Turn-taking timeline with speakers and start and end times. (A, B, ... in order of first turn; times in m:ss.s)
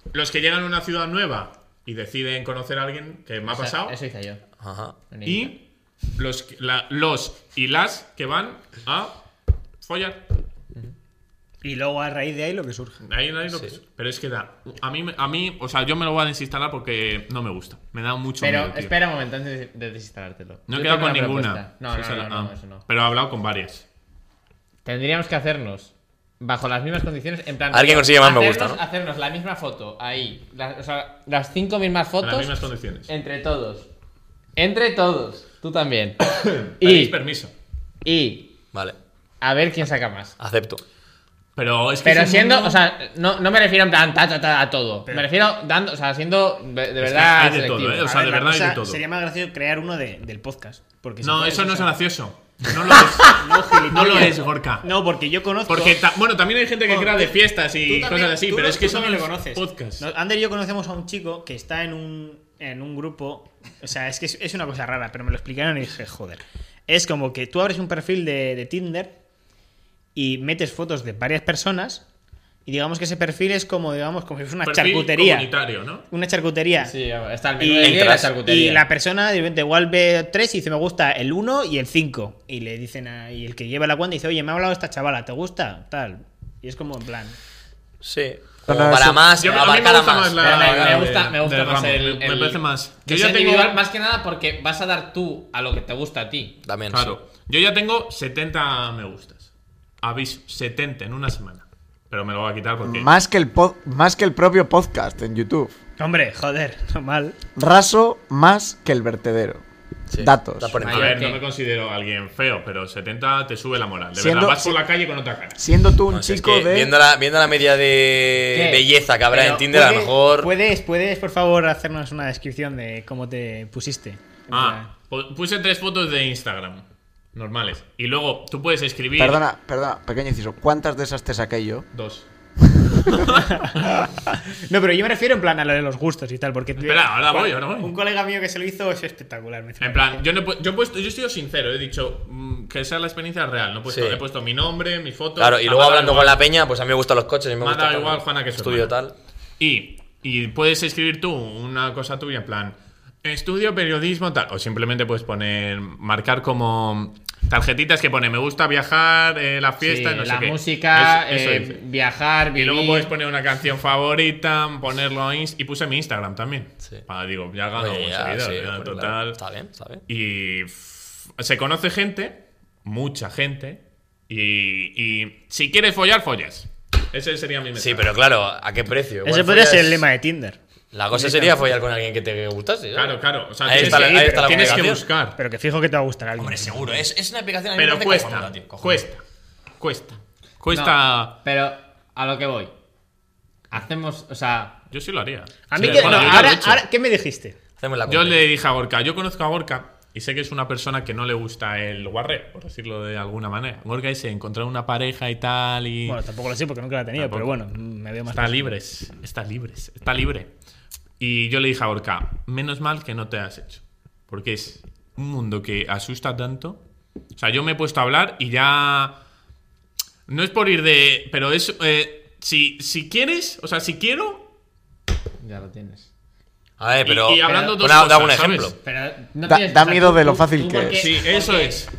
0:00.1-0:04.0 A
0:03.5-0:04.4 B
0:04.6-0:05.1 C
0:05.1-0:05.5 B
0:05.2-0:05.6 A
0:06.2-0:09.2 A
0:09.8-0:10.2 A
0:11.6-0:13.0 D
0:13.0-0:18.9 A
0:13.5-0:13.8 C
0:18.4-0:22.8 B
0:20.7-0:23.8 A
0:24.8-0:33.9 B
0:27.7-0:28.8 C
0:32.2-0:33.1 A
0:34.6-0:36.3 B
0:36.3-0:37.5 A
0:36.8-0:37.2 B
0:38.0-0:38.5 B
0:39.4-0:40.4 B
0:40.4-0:40.8 C
0:41.6-0:42.8 A
0:42.0-0:48.1 B
0:47.0-0:49.0 A
0:48.0-0:52.0 D
0:51.2-0:54.9 A
0:53.2-0:56.0 D
0:55.7-1:00.0 A
0:56.9-1:09.2 D
1:10.2-1:12.0 D
1:12.7-1:15.5 D
1:14.6-1:16.1 A
1:16.1-1:16.9 D
1:16.8-1:18.8 B
1:17.6-1:27.4 D
1:17.8-1:18.3 C
1:28.0-1:31.1 C
1:28.7-1:29.3 E
1:29.4-1:33.8 A
1:30.4-1:36.6 B
1:36.6-1:37.2 C
1:36.9-1:39.5 A
1:40.0-1:43.1 A
1:42.8-1:45.8 E
1:46.0-1:47.4 D
1:47.6-1:49.6 E
1:50.1-1:51.3 C
1:50.2-1:50.8 E
1:50.8-1:51.4 B
1:50.9-1:55.6 A
1:54.2-1:54.8 E
1:55.6-1:56.9 E
1:56.1-2:00.5 C
1:58.5-1:58.9 B
1:59.3-2:04.9 D
2:04.5-2:06.8 A
2:07.4-2:09.4 A
2:09.2-2:11.9 E
2:11.9-2:12.3 A
2:12.9-2:14.1 A
2:13.5-2:20.2 D
2:16.8-2:17.9 A
2:19.8-2:26.4 A
2:23.9-2:24.2 C
2:25.4-2:29.1 C
2:27.6-2:28.9 A
2:29.6-2:41.8 A
2:39.8-2:43.1 B
2:42.6-2:49.4 A
2:47.7-2:50.0 C
2:50.1-2:58.1 A
2:57.8-3:00.0 C
2:59.2-3:00.6 D
3:00.9-3:05.1 C
3:01.1-3:01.5 D
3:03.0-3:05.4 A
3:03.7-3:07.0 D
3:06.4-3:09.1 C
3:07.8-3:09.2 A
3:09.8-3:11.3 A
3:10.7-3:12.7 B
3:13.7-3:14.8 B
3:14.9-3:16.8 A
3:15.7-3:17.6 D
3:15.8-3:16.5 B
3:17.8-3:18.4 C
3:18.1-3:26.2 A
3:26.1-3:28.8 D
3:27.2-3:27.5 A
3:28.3-3:30.5 A
3:31.2-3:36.8 A
3:37.4-3:39.2 A
3:40.3-3:44.4 A
3:45.4-3:46.1 B
3:46.8-3:48.8 C
3:47.0-3:48.7 A
3:48.8-3:51.9 B
3:49.4-3:51.1 E
3:50.9-3:51.9 A